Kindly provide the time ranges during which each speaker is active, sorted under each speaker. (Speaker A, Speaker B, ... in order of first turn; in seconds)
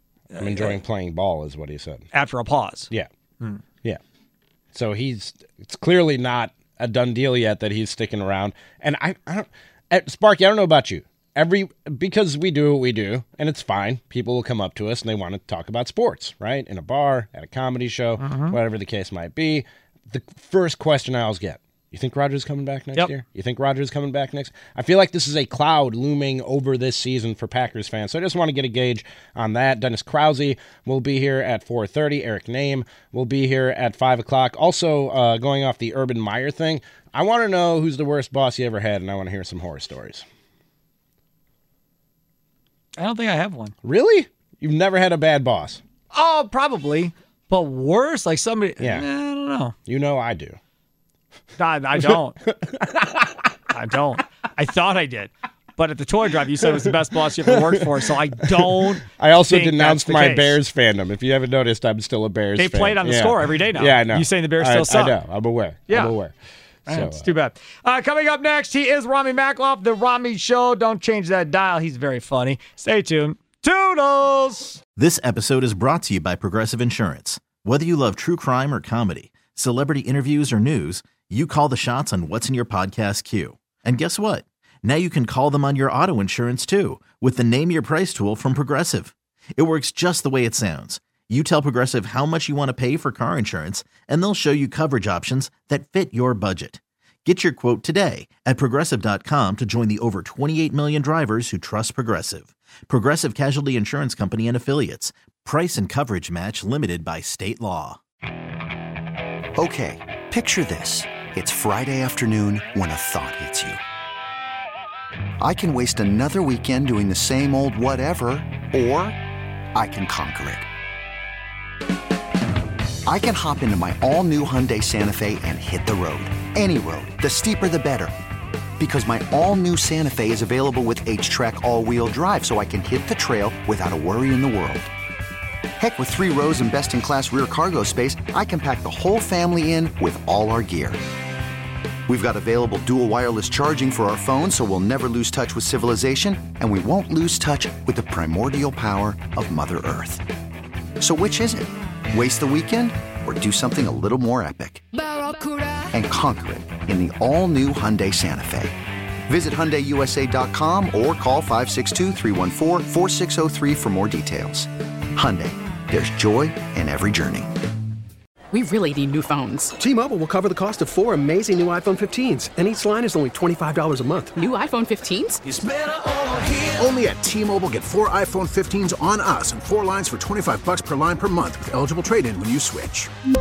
Speaker A: 0.3-0.8, 2.1-2.9, 18.2-18.6, 43.0-43.7, 46.1-49.7, 51.6-52.4, 53.7-60.6, 62.6-65.2, 65.9-66.1, 66.9-74.8
Speaker B: 0.4-2.0, 4.7-40.2, 43.8-45.8, 48.8-49.0, 49.9-50.6, 52.5-52.9, 59.0-66.3, 66.9-67.3
Speaker C: 75.0-108.0
Speaker D: 109.5-113.8, 115.4-119.2, 119.7-120.7, 123.0-128.1, 128.8-134.9, 135.8-141.0, 142.1-150.2, 151.0-154.8, 155.9-158.7, 159.3-167.5
Speaker E: 168.5-169.7, 174.3-175.4
Speaker F: 169.8-174.3, 175.4-176.8
Speaker G: 176.8-183.1